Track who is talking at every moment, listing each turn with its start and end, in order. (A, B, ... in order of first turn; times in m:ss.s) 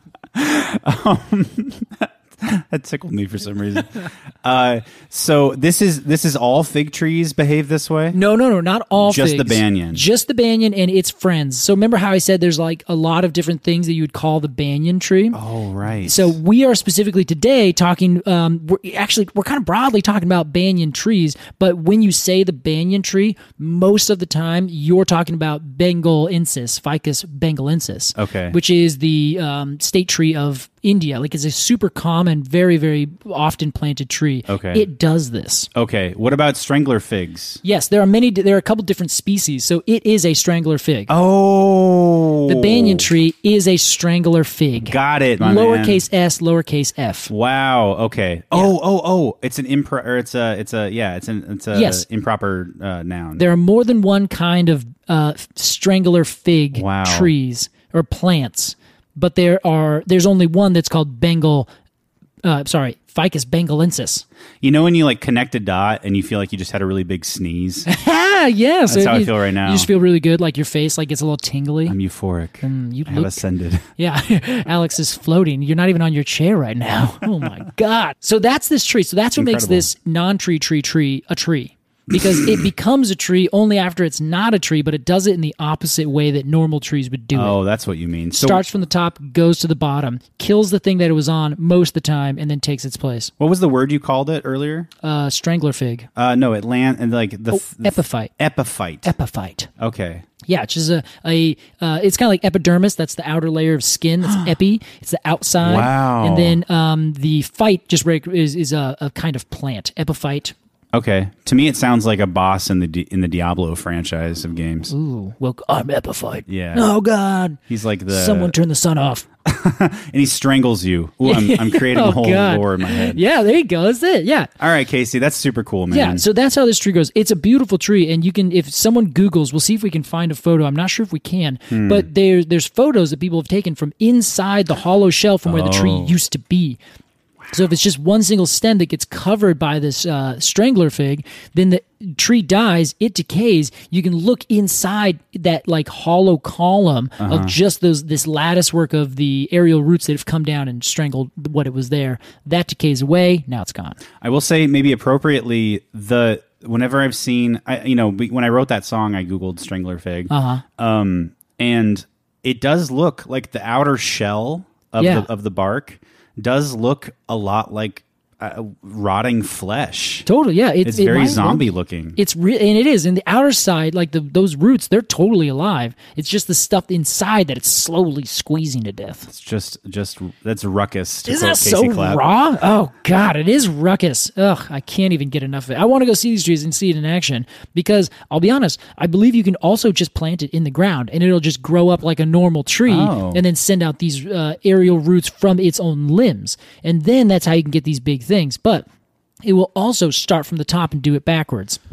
0:00.3-0:08.2 A
0:08.1-0:15.4 B
0:09.0-0:10.0 A
0:15.3-0:16.4 A
0:16.0-0:35.7 B
0:28.2-0:28.6 A
0:34.5-0:34.9 A
0:35.7-0:37.6 A
0:37.6-0:41.1 B
0:41.1-0:43.1 A
0:42.5-0:47.3 B
0:44.9-0:46.0 A
0:47.3-0:53.4 A
0:51.7-0:52.0 B
0:53.4-1:01.7 B
0:56.7-0:57.3 A
1:02.4-1:04.2 B
1:04.6-1:07.9 A
1:07.9-1:12.0 B
1:08.9-1:09.9 A
1:11.9-1:13.9 A
1:12.6-1:13.4 B
1:14.0-1:27.6 B
1:19.4-1:19.9 A
1:22.1-1:22.6 A
1:27.3-1:28.6 A
1:28.3-1:33.3 B
1:33.4-1:34.9 A
1:35.0-1:36.1 B
1:36.2-1:39.1 A
1:37.5-1:38.3 B
1:39.0-1:39.7 B
1:39.8-1:40.3 A
1:40.5-1:50.5 B
1:45.6-1:46.6 A
1:50.9-1:54.9 A
1:54.9-1:59.3 B
1:56.5-1:56.8 A
1:57.7-1:58.5 A
1:59.4-2:03.2 A
2:01.2-2:04.5 B
2:04.6-2:06.2 A
2:05.9-2:16.8 B
2:11.7-2:12.1 A
2:15.5-2:16.2 A
2:17.5-2:34.0 B
2:27.2-2:27.6 A
2:34.2-2:50.3 A
2:40.3-2:40.6 B
2:45.0-2:45.3 B
2:50.3-2:59.3 B
2:50.8-2:52.2 A
2:59.3-3:02.2 A
3:01.3-3:18.8 B
3:12.9-3:13.4 A
3:19.4-3:21.8 B